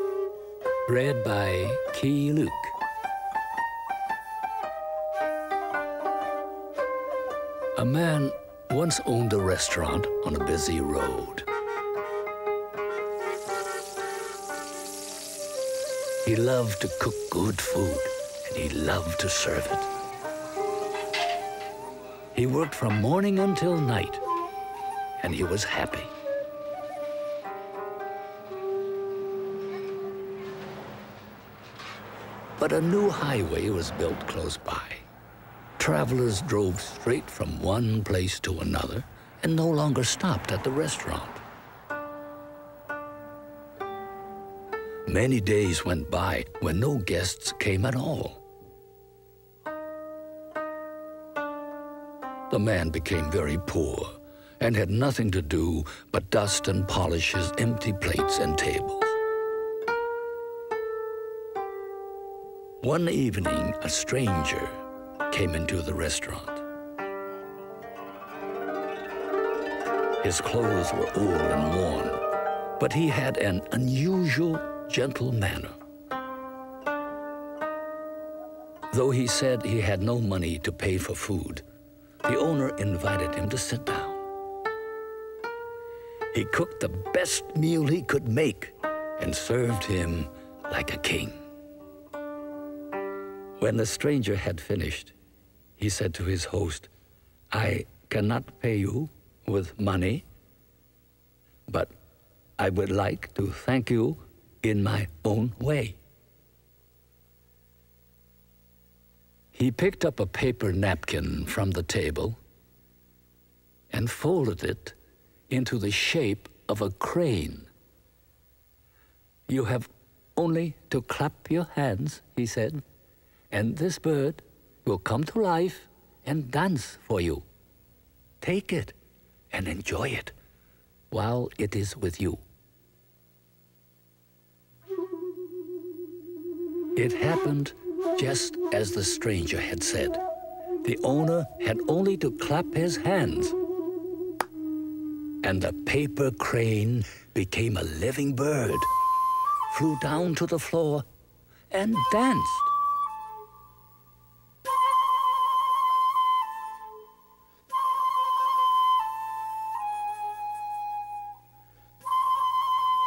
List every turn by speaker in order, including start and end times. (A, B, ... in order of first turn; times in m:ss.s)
0:00.9-0:02.8 A
0:07.8-0:11.5 A
0:16.2-0:19.9 A
0:22.3-0:24.2 A
0:25.2-0:26.1 A
0:32.6-0:35.0 A
0:35.8-0:41.4 A
0:45.1-0:48.4 A
0:52.5-0:59.2 A
1:02.8-1:06.6 A
1:10.2-1:12.3 A
1:12.8-1:15.8 A
1:18.9-1:21.6 A
1:22.2-1:24.2 A
1:26.3-1:31.4 A
1:33.6-1:35.1 A
1:35.8-1:36.9 A
1:37.5-1:40.2 A
1:42.6-1:46.0 A
1:49.5-1:52.4 A
1:53.9-1:55.0 A
1:55.5-1:57.7 A
1:59.5-2:02.8 A
2:03.5-2:07.4 A
2:08.4-2:09.0 A
2:09.5-2:10.3 A
2:11.1-2:12.4 A
2:17.0-2:20.2 A
2:20.8-2:23.6 A
2:25.4-2:28.9 A
2:29.7-2:31.1 A
2:31.7-2:32.7 A